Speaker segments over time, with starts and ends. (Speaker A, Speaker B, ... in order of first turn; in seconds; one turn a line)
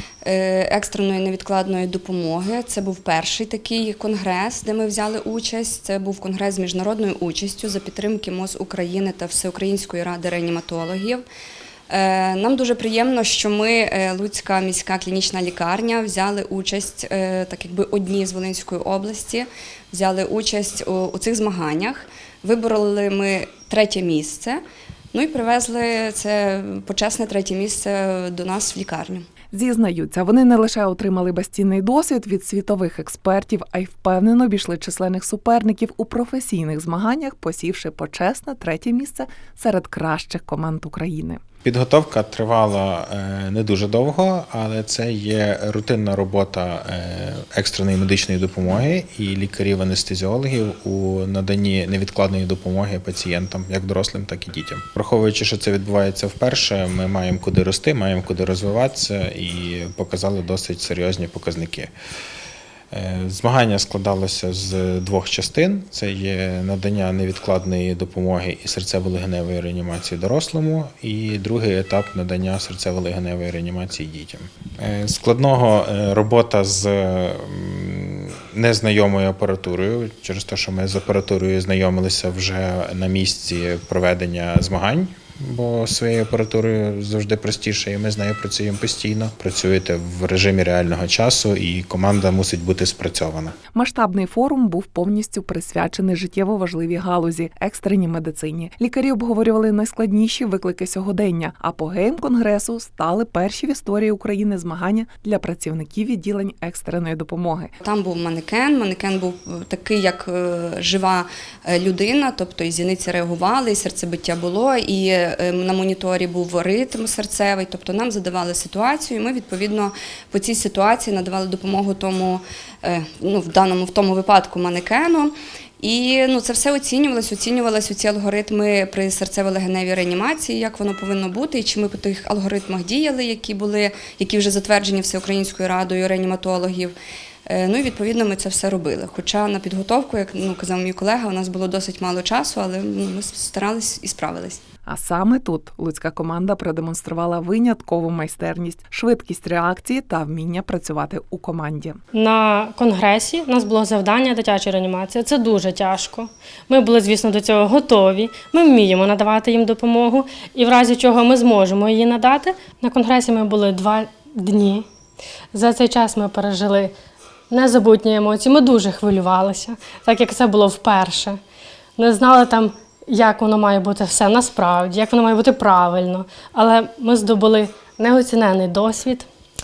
Speaker A: 0.2-11.2
Speaker A: 11.9-24.6
Speaker A: 25.1-29.3
Speaker B: 29.5-41.4
Speaker C: 41.6-61.9
Speaker C: 62.9-93.6
Speaker B: 93.8-107.7
Speaker A: 107.8-136.9
Speaker A: 137.5-144.6
Speaker B: 144.9-152.0
Speaker D: 152.1-164.8
Speaker D: 165.5-166.9
Speaker D: 167.5-171.4
Speaker D: 172.0-179.3